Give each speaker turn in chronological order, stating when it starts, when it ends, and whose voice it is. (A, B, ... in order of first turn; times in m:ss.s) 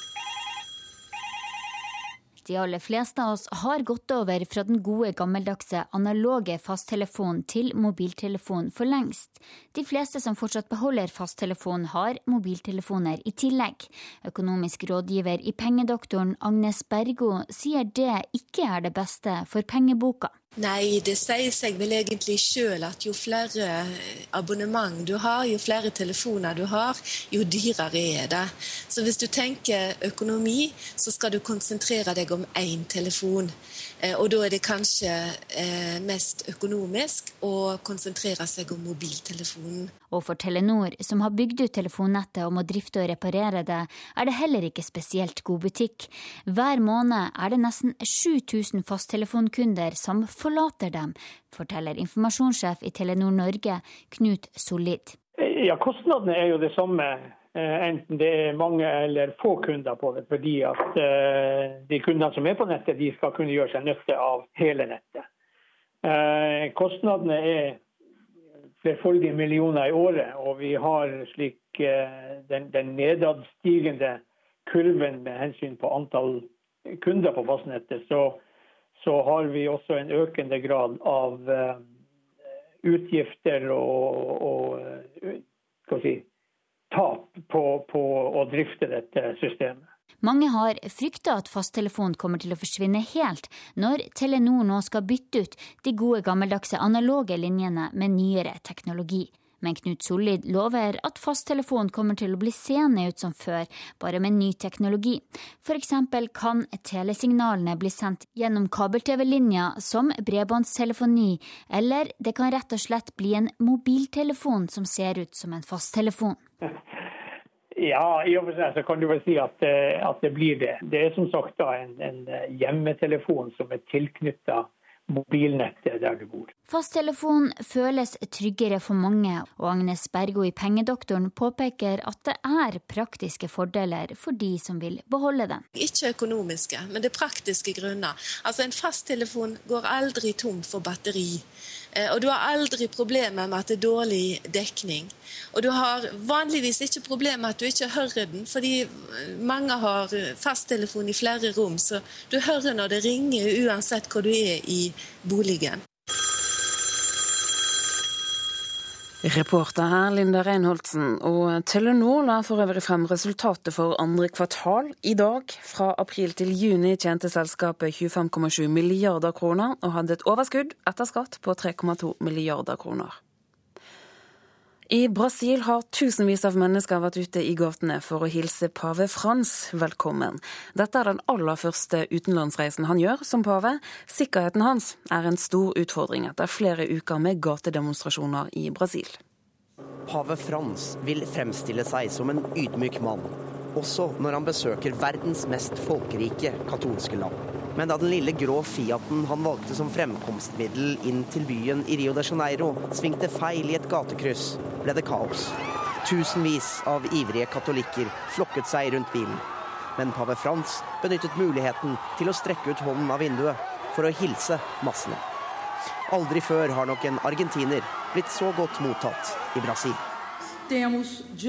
0:02.4-0:20.3 A
0:20.6-0:33.5 B
0:34.0-0:39.9 B
0:40.1-0:55.2 A
0:55.4-1:05.3 C
1:06.0-1:07.8 C
1:08.8-1:16.5 C
1:17.0-1:18.4 C
1:19.0-1:21.8 C
1:22.8-1:26.2 C
1:26.9-1:29.8 C
1:30.2-1:56.4 A
1:57.8-2:06.5 C
2:06.7-2:15.6 A
2:15.7-2:21.4 B
2:22.0-2:35.8 B
2:39.2-2:53.2 D
2:54.9-3:09.2 D
3:10.1-3:29.4 E
3:30.0-3:35.2 E
3:36.1-3:40.0 E